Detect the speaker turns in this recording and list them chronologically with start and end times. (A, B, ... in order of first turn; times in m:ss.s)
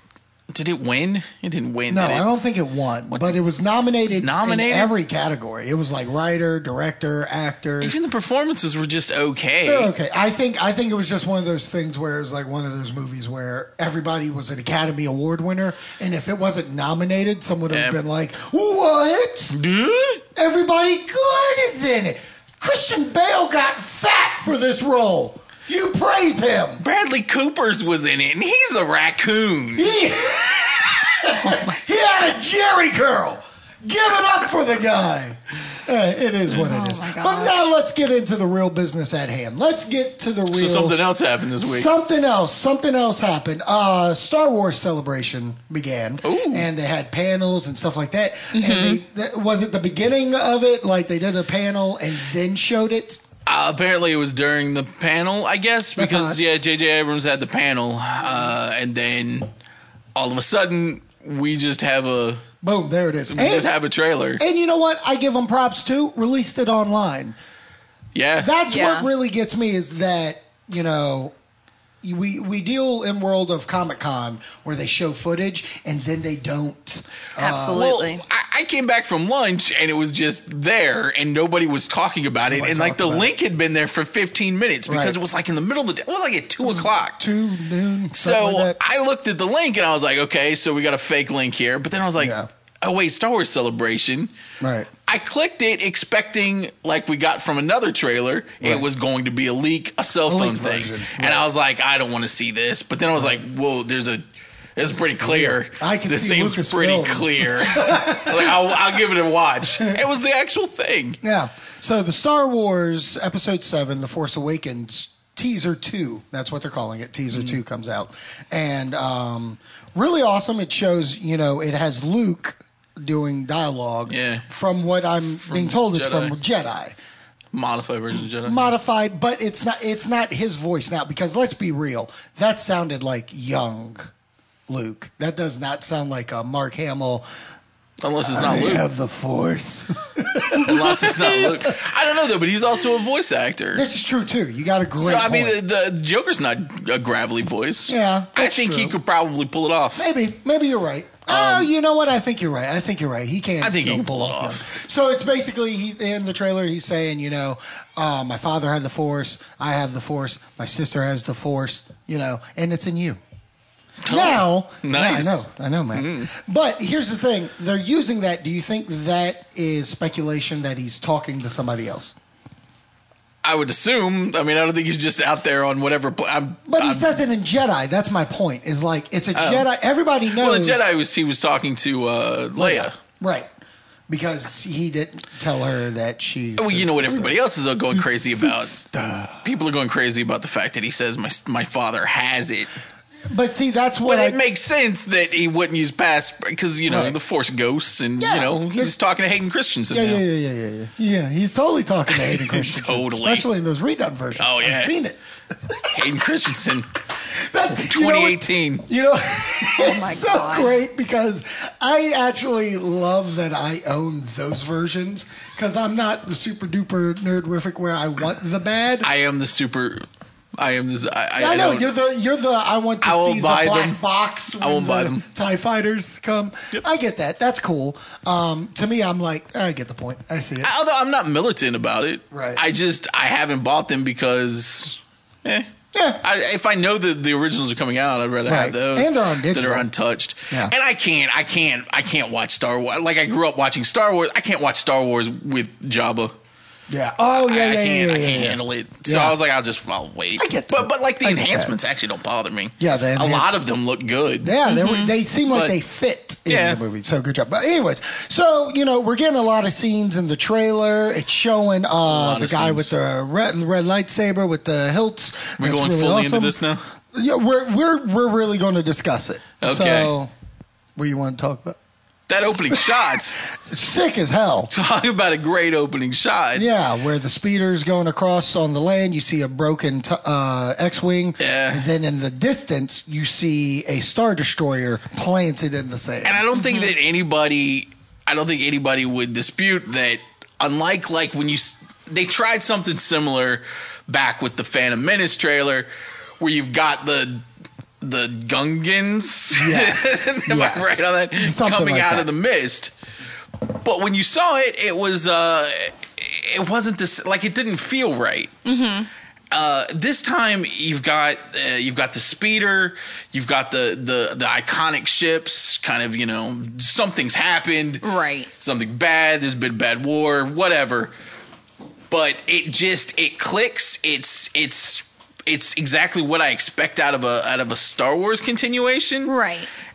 0:00.5-0:02.3 A
0:01.9-0:08.0 B
0:03.1-0:03.4 A
0:04.1-0:04.9 A
0:07.8-0:09.9 A
0:09.6-0:19.6 B
0:17.7-0:18.0 A
0:19.5-0:20.2 A
0:20.4-0:26.8 B
0:26.8-0:29.9 A
0:29.7-0:41.0 B
0:36.5-0:37.6 C
0:40.5-0:41.9 A
0:41.6-0:53.2 B
0:46.2-0:46.6 A
0:48.5-0:49.0 C
0:53.4-0:59.5 A
0:56.0-0:56.4 B
1:00.1-1:02.4 A
1:02.6-1:03.7 B
1:03.3-1:04.4 A
1:04.4-1:07.4 B
1:08.1-1:08.5 A
1:08.4-1:11.3 B
1:08.7-1:09.1 C
1:12.0-1:17.9 B
1:17.4-1:18.2 C
1:17.7-1:27.2 A
1:22.5-1:23.3 B
1:24.9-1:25.2 B
1:26.6-1:28.8 B
1:28.1-1:34.3 A
1:32.2-1:32.5 B
1:34.6-1:34.9 B
1:35.1-1:44.2 A
1:40.2-1:41.4 B
1:44.8-1:51.2 A
1:44.9-1:48.8 B
1:51.2-2:07.0 B
2:04.1-2:04.4 A
2:05.4-2:06.3 A
2:07.5-2:08.7 A
2:08.4-2:14.1 B
2:14.7-2:17.2 B
2:18.0-2:18.8 A
2:18.2-2:21.8 B
2:20.6-2:23.8 A
2:23.7-2:25.6 B
2:25.0-2:30.1 A
2:27.9-2:29.0 B
2:30.0-2:43.2 B
2:31.3-2:31.7 A
2:33.6-2:34.7 A
2:44.0-2:46.3 A
2:44.1-2:52.1 B
2:53.4-2:57.1 A
2:56.7-3:00.9 B
2:59.3-2:59.7 A
3:00.4-3:02.9 A
3:02.6-3:03.5 B
3:04.1-3:07.4 B
3:06.6-3:08.8 A
3:07.9-3:09.5 B
3:09.4-3:12.7 A
3:13.3-3:14.4 B
3:14.0-3:20.2 A
3:16.9-3:17.2 B
3:18.2-3:18.9 B
3:19.9-3:26.0 B
3:22.1-3:23.5 A
3:24.4-3:24.9 A
3:25.9-3:26.9 A
3:27.3-3:39.1 B
3:27.8-3:28.8 A
3:29.8-3:30.7 C
3:39.0-3:40.0 A
3:40.6-3:41.9 A
3:41.4-3:50.7 B
3:43.0-3:44.0 A
3:44.6-3:45.2 A
3:50.6-3:55.7 A
3:52.3-3:52.6 B
3:55.9-3:56.2 B
3:56.2-4:06.3 A
3:58.4-3:59.9 B
4:06.9-4:09.4 B
4:07.4-4:14.5 A
4:10.4-4:11.7 B
4:12.8-4:13.6 B
4:14.4-4:26.6 B
4:14.6-4:15.1 C
4:16.5-4:16.8 A
4:22.0-4:22.9 A
4:25.6-4:26.8 A
4:27.1-4:30.3 B
4:29.6-4:30.1 A
4:31.0-4:31.8 B
4:32.3-4:33.4 A
4:32.7-4:32.9 B
4:33.7-4:34.7 B
4:34.7-4:36.7 A
4:36.5-4:46.4 B
4:41.4-4:41.8 A
4:46.2-4:55.9 A
4:46.6-4:46.9 C
4:56.4-4:57.4 A
4:58.0-5:02.9 A
4:59.5-5:02.3 B
5:03.7-5:08.5 A
5:08.6-5:09.1 C
5:09.5-5:18.0 A
5:18.0-5:18.5 C
5:18.6-5:21.1 A
5:22.1-5:29.3 A
5:29.2-5:29.7 C